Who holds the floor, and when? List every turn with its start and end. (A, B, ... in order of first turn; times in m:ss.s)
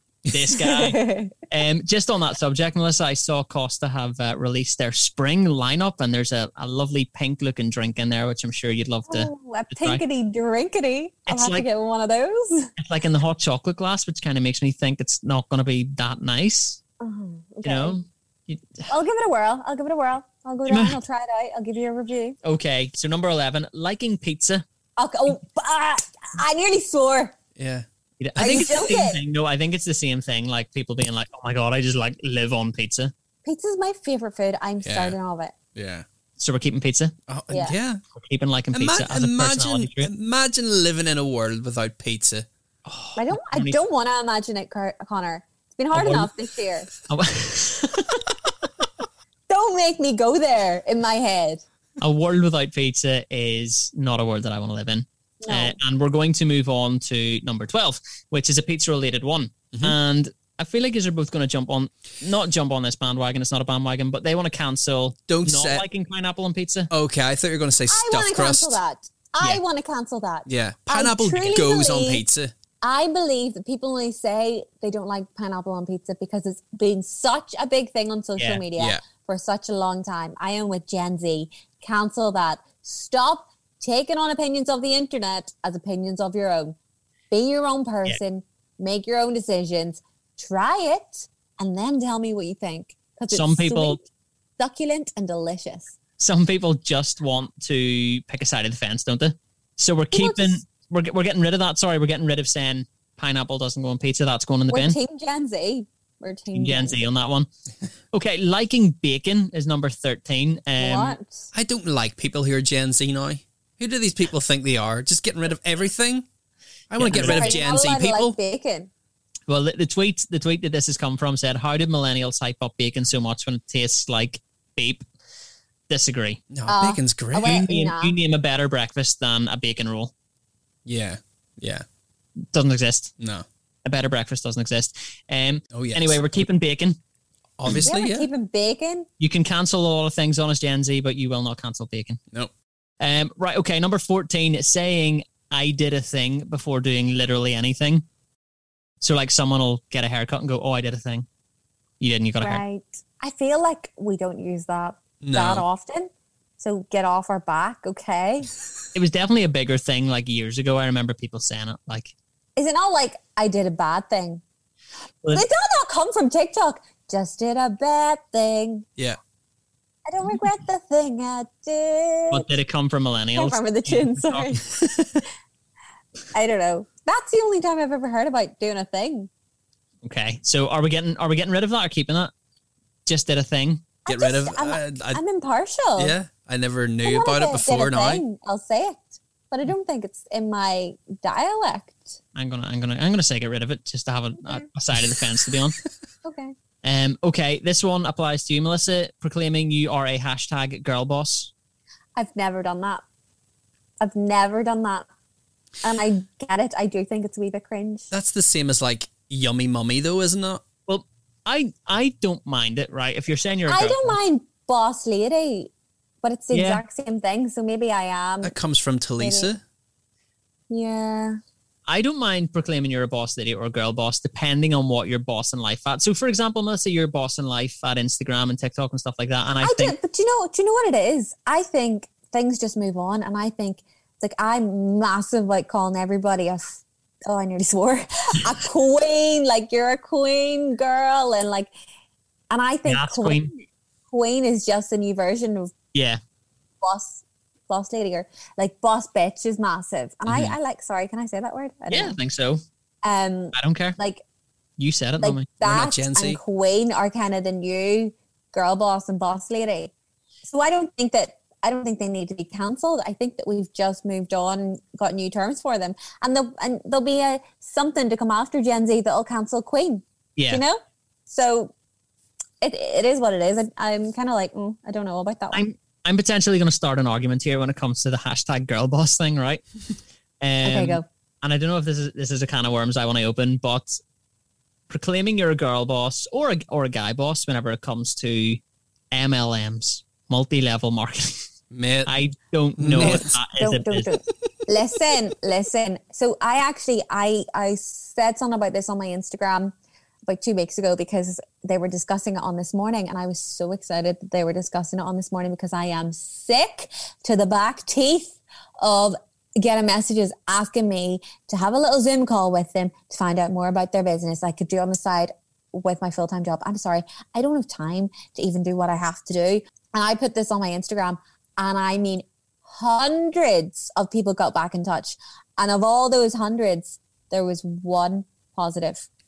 0:00.3-0:10.0 A
0:00.6-0:01.4 B
0:09.1-0:12.7 B
0:11.3-0:11.7 A
0:12.8-0:16.8 A
0:17.0-0:18.0 B
0:17.6-0:18.9 A
0:18.9-0:22.4 B
0:20.7-0:21.0 A
0:22.4-0:24.6 A
0:25.0-0:27.4 B
0:27.6-0:27.9 C
0:28.2-0:33.1 A
0:28.4-0:29.2 B
0:33.4-0:35.6 B
0:34.8-0:35.2 C
0:35.8-0:36.0 C
0:36.4-0:37.1 A
0:37.3-0:38.0 C
0:38.1-0:40.1 A
0:38.7-0:42.5 C
0:42.9-0:43.8 A
0:43.2-0:46.9 B
0:45.9-0:46.3 A
0:47.1-0:48.3 A
0:49.5-0:51.6 B
0:52.0-1:06.9 A
0:55.4-0:55.8 B
1:05.3-1:05.9 C
1:06.9-1:08.8 C
1:07.9-1:12.2 B
1:10.5-1:12.5 C
1:12.8-1:26.8 B
1:18.4-1:18.6 A
1:18.8-1:19.0 C
1:27.3-1:34.0 B
1:33.3-1:34.0 A
1:34.6-1:36.0 B
1:36.2-1:45.0 A
1:40.1-1:40.6 B
1:44.7-1:47.0 B
1:46.6-1:47.5 A
1:48.1-1:51.2 A
1:50.8-1:51.5 B
1:51.5-1:56.3 C
1:56.9-1:58.4 C
1:57.0-1:57.6 A
1:57.1-1:58.9 B
1:59.5-2:05.0 A
2:05.9-2:06.4 A
2:06.5-2:07.6 C
2:06.7-2:08.2 B
2:07.4-2:10.1 A
2:10.9-2:11.8 C
2:12.5-2:13.1 A
2:13.2-2:13.4 C
2:13.8-2:17.0 A
2:15.7-2:16.2 C
2:17.6-2:18.3 C
2:17.8-2:19.1 B
2:19.2-2:22.2 A
2:23.0-2:28.0 A
2:29.0-2:31.3 A
2:32.0-2:32.6 A
2:32.4-2:38.5 B
2:35.2-2:35.6 C
2:38.9-2:42.1 A
2:42.6-2:44.4 B
2:45.3-2:48.9 B
2:50.1-2:52.5 B
2:52.3-2:54.6 A
2:53.4-2:54.7 B
2:56.3-2:59.3 B
3:00.0-3:02.3 A
3:03.1-3:03.9 A
3:04.1-3:06.2 B
3:04.1-3:05.2 C
3:06.0-3:08.2 C
3:07.0-3:12.2 B
3:12.4-3:15.8 A
3:16.2-3:16.5 B
3:16.8-3:21.5 A
3:22.2-3:23.0 B
3:24.0-3:25.1 B
3:25.8-3:28.1 B
3:28.1-3:30.6 C
3:30.9-3:34.2 A
3:33.7-3:35.7 B
3:36.2-3:38.5 B
3:36.5-3:36.8 A
3:38.4-3:39.6 C
3:39.2-3:39.5 B
3:40.7-3:41.4 B
3:41.9-3:50.0 A
3:49.6-4:01.7 B
4:02.5-4:05.7 B
4:02.9-4:03.5 A
4:05.9-4:06.2 A
4:06.8-4:12.2 B
4:11.9-4:12.6 A
4:13.0-4:14.2 B
4:13.5-4:14.0 A
4:14.8-4:15.5 A
4:15.2-4:19.9 B
4:15.6-4:16.4 C
4:20.4-4:31.7 B
4:30.4-4:30.6 A
4:32.6-4:35.6 B
4:35.5-4:39.6 A
4:40.4-4:44.0 A
4:40.6-4:41.0 B
4:44.9-4:48.6 A
4:49.1-4:51.5 A
4:51.7-4:52.1 C
4:52.1-4:54.1 A
4:52.8-4:53.3 C
4:53.0-4:59.7 B
5:00.3-5:29.1 B